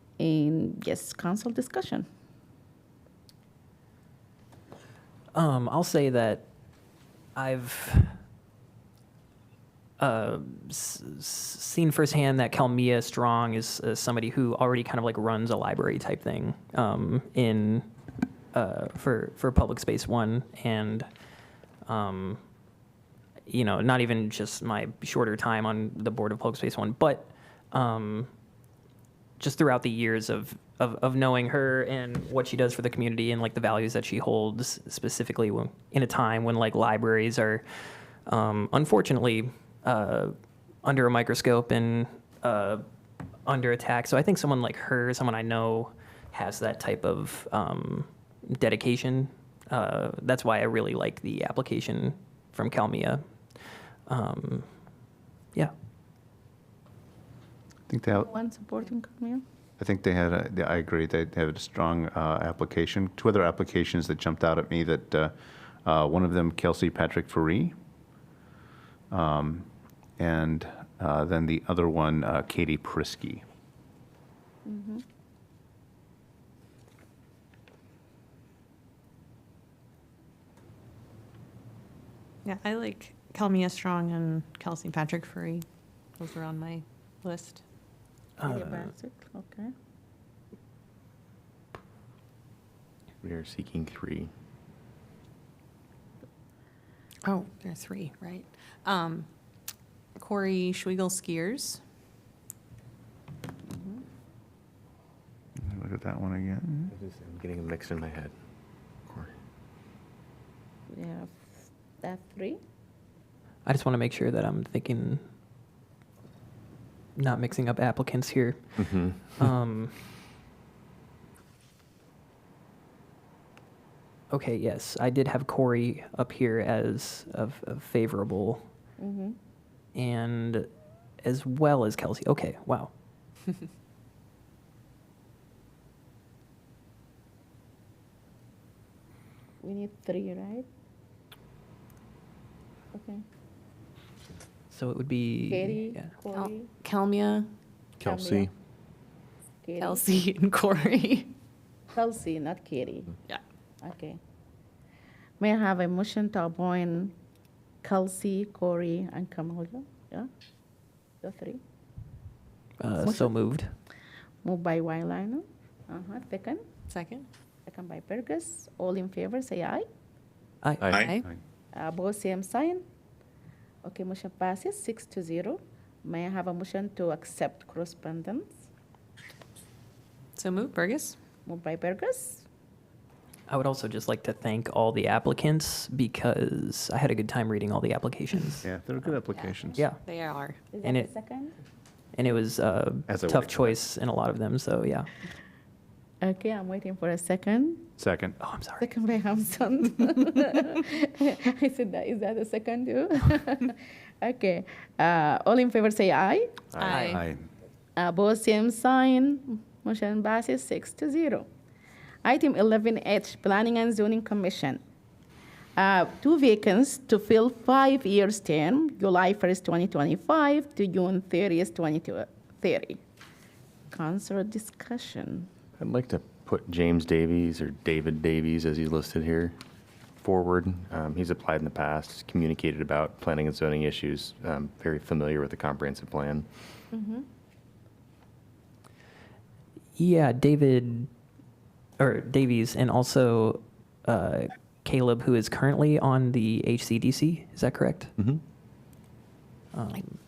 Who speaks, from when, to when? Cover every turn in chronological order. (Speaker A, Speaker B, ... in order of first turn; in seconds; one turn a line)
Speaker A: 0.2-2.1
Speaker B: 5.3-6.5
Speaker B: 7.4-8.2
Speaker B: 10.0-17.9
Speaker B: 18.5-21.1
Speaker B: 21.9-22.4
Speaker B: 23.5-28.3
Speaker B: 29.4-37.6
Speaker B: 38.3-42.8
Speaker B: 43.5-53.2
Speaker B: 54.1-54.7
Speaker C: 57.9-58.3
Speaker A: 58.1-59.4
Speaker C: 59.8-65.3
Speaker C: 65.8-67.7
Speaker C: 69.1-73.4
Speaker A: 74.7-75.0
Speaker D: 82.5-85.7
Speaker D: 86.2-87.6
Speaker B: 88.4-88.9
Speaker A: 88.4-89.7
Speaker E: 93.2-94.3
Speaker D: 97.2-99.3
Speaker D: 100.2-101.8
Speaker A: 103.7-104.0
Speaker C: 105.6-106.9
Speaker E: 106.9-108.3
Speaker A: 110.9-112.6
Speaker B: 113.7-115.2
Speaker B: 117.2-120.0
Speaker E: 118.8-119.4
Speaker B: 124.3-128.6
Speaker A: 129.0-129.4
Speaker B: 129.9-130.7
Speaker B: 131.2-132.9
Speaker A: 139.6-140.7
Speaker A: 142.9-143.2
Speaker B: 144.7-146.1
Speaker A: 145.5-146.7
Speaker D: 146.3-147.5
Speaker E: 148.0-148.5
Speaker A: 148.0-148.5
Speaker A: 149.6-150.1
Speaker D: 149.8-151.3
Speaker A: 151.9-153.1
Speaker A: 153.8-154.2
Speaker A: 155.4-157.1
Speaker A: 157.8-160.3
Speaker A: 161.2-161.6
Speaker B: 162.8-163.7
Speaker A: 163.0-163.3
Speaker A: 164.4-166.6
Speaker D: 166.9-167.3
Speaker A: 167.7-169.9
Speaker B: 170.6-171.2
Speaker E: 170.8-171.1
Speaker D: 170.9-171.2
Speaker A: 171.7-172.8
Speaker A: 173.8-178.6
Speaker D: 180.4-181.2
Speaker A: 181.5-182.4
Speaker B: 183.5-189.1
Speaker C: 188.6-189.8
Speaker D: 189.3-190.6
Speaker A: 190.7-191.6
Speaker B: 190.8-191.1
Speaker B: 192.2-195.1
Speaker C: 193.1-193.8
Speaker A: 196.2-197.9
Speaker C: 198.0-198.4
Speaker B: 198.4-198.8
Speaker A: 198.8-206.7
Speaker D: 206.8-207.2
Speaker E: 206.8-207.1
Speaker B: 206.9-207.2
Speaker C: 207.1-207.4
Speaker A: 208.0-211.5
Speaker A: 212.2-214.8
Speaker A: 215.8-223.0
Speaker A: 223.9-225.5
Speaker E: 225.8-229.6
Speaker E: 230.2-236.5
Speaker A: 236.9-237.3
Speaker B: 240.0-241.1
Speaker B: 242.0-248.1
Speaker B: 249.7-250.2